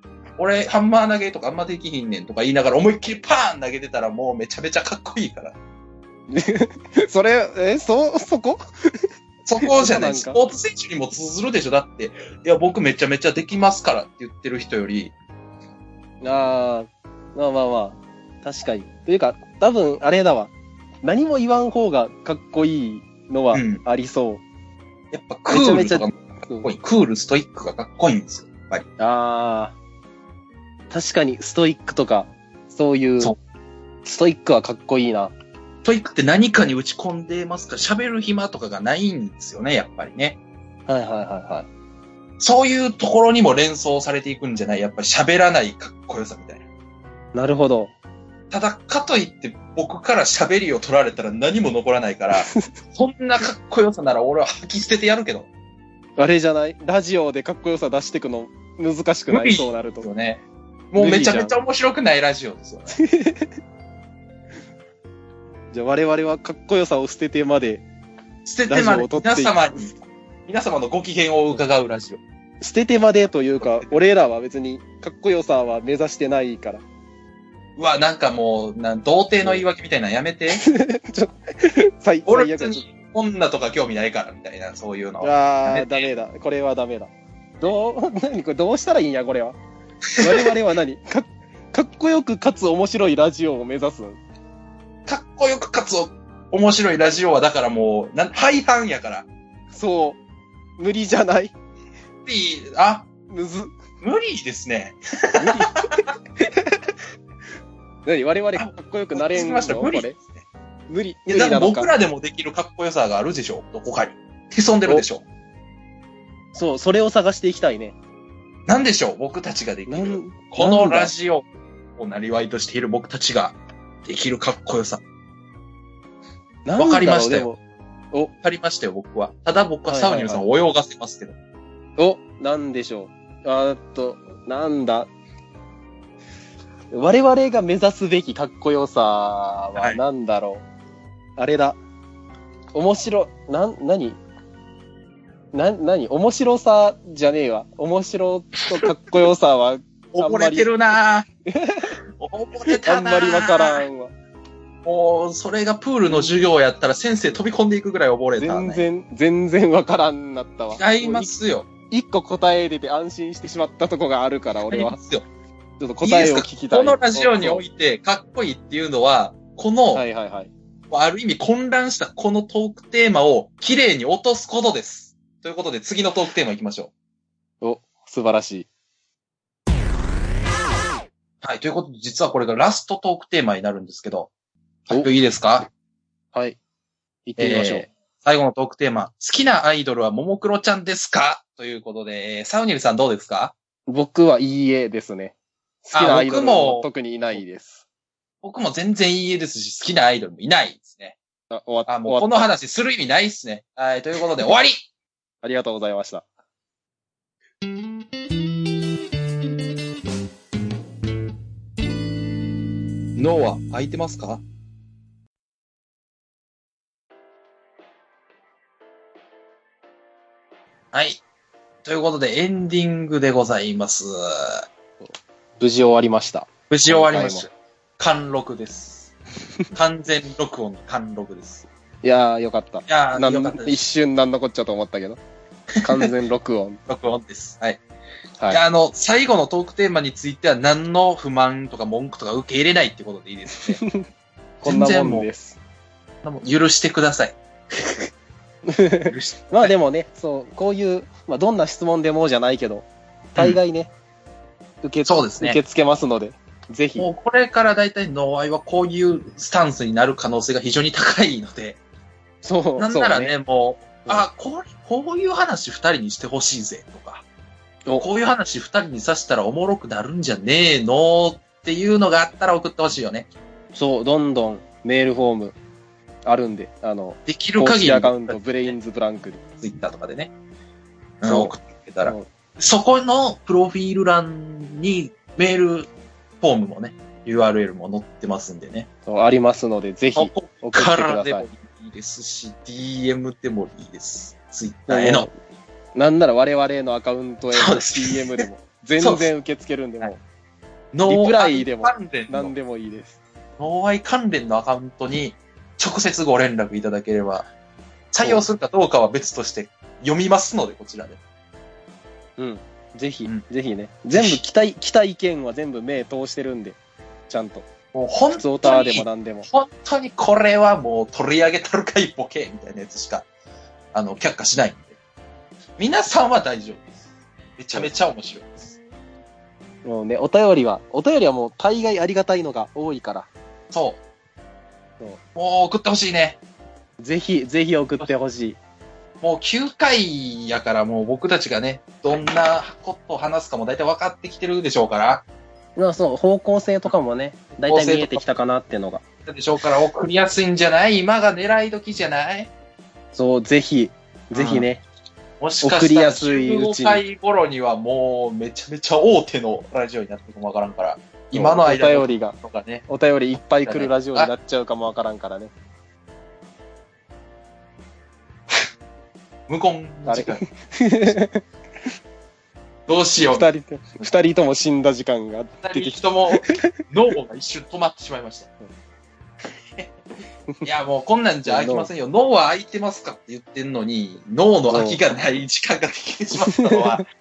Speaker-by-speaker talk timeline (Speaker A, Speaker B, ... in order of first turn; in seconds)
Speaker A: 0.4-5.6, 9.4-15.1, 23.5-23.8, 25.1-28.9, 35.8-40.4, 42.4-46.6, 48.5-55.5, 59.3-63.0, 68.5-70.0, 70.5-72.2, 73.6-73.9, 77.8-80.6, 82.3-86.1, 90.2-90.5, 95.1-99.3, 102.3-103.1, 104.0-106.0, 108.5-110.5, 111.3-115.2, 118.7-121.5, 122.0-125.0, 126.8-127.5, 128.4-131.4, 150.1-151.3, 152.2-153.9, 154.8-158.8, 160.8-161.7, 164.7-165.3, 166.0-170.1, 170.9-176.9, 181.4-184.3, 184.9-185.7, 187.4-193.5, 195.9-197.4, 198.4-201.2, 201.9-204.9, 213.2-214.4, 220.9-221.2, 221.8-224.7, 226.7-229.1, 229.8-231.7, 232.9-233.8, 236.9-237.8, 238.5-243.8, 244.6-245.3, 246.2-248.1, 249.1-249.7, 255.1-255.6, 257.0-261.8, 262.8-267.2, 268.0-273.3, 277.3-278.8, 279.6-280.3, 281.2-285.9, 286.4-288.9, 290.1-295.3, 297.5-298.4, 299.0-299.3, 300.9-302.5, 303.6-307.5, 308.1-311.2, 314.1-314.4, 317.9-323.3, 323.9-325.0, 325.8-327.0, 327.6-328.8, 333.7-334.0, 335.4-336.4, 339.2-345.2, 347.6-348.3, 349.3-352.5, 354.3-354.7, 355.4-362.9, 363.6-364.3, 369.5-370.4, 372.9-373.5, 375.6-378.5, 380.6-387.1
Speaker B: 6.3-8.6, 9.6-10.4, 16.2-20.5, 21.0-24.4, 25.5-26.7, 29.0-29.8, 30.9-33.4, 34.0-35.3, 40.9-41.7, 47.3-47.9, 52.4-52.7, 56.2-60.1, 61.0-61.5, 62.9-63.5, 65.7-67.9, 68.7-69.9, 72.6-76.8, 80.5-82.8, 85.2-89.6, 90.2-94.2, 99.7-100.2, 100.8-101.5, 103.3-103.7, 105.4-106.8, 108.1-110.2, 110.9-111.9, 116.5-118.0, 119.9-121.1, 126.7-127.6, 129.9-130.4, 132.0-135.1, 136.9-140.6, 141.4-141.8, 142.7-144.2, 145.5-150.7, 151.5-152.0, 152.7-154.1, 158.4-161.3, 161.9-165.0, 165.8-167.6, 169.9-170.5, 177.6-178.7, 186.3-186.6, 187.3-187.9, 193.9-197.8, 201.5-202.4, 205.4-206.2, 225.6-227.5, 232.0-235.2, 235.8-236.8, 243.5-244.1, 244.6-245.6, 248.7-253.9, 254.8-257.1, 262.4-263.3, 273.7-275.6, 276.2-279.4, 281.3-282.3, 289.1-291.5, 294.9-295.3, 295.9-300.2, 301.1-303.2, 312.4-316.8, 317.3-317.7, 318.4-319.5, 329.9-333.3, 337.0-338.6, 345.8-349.0, 353.1-354.8, 355.6-357.0, 361.3-362.4, 362.9-365.5, 370.1-371.4, 373.2-376.8, 381.5-381.9, 384.7-385.0, 386.4-387.1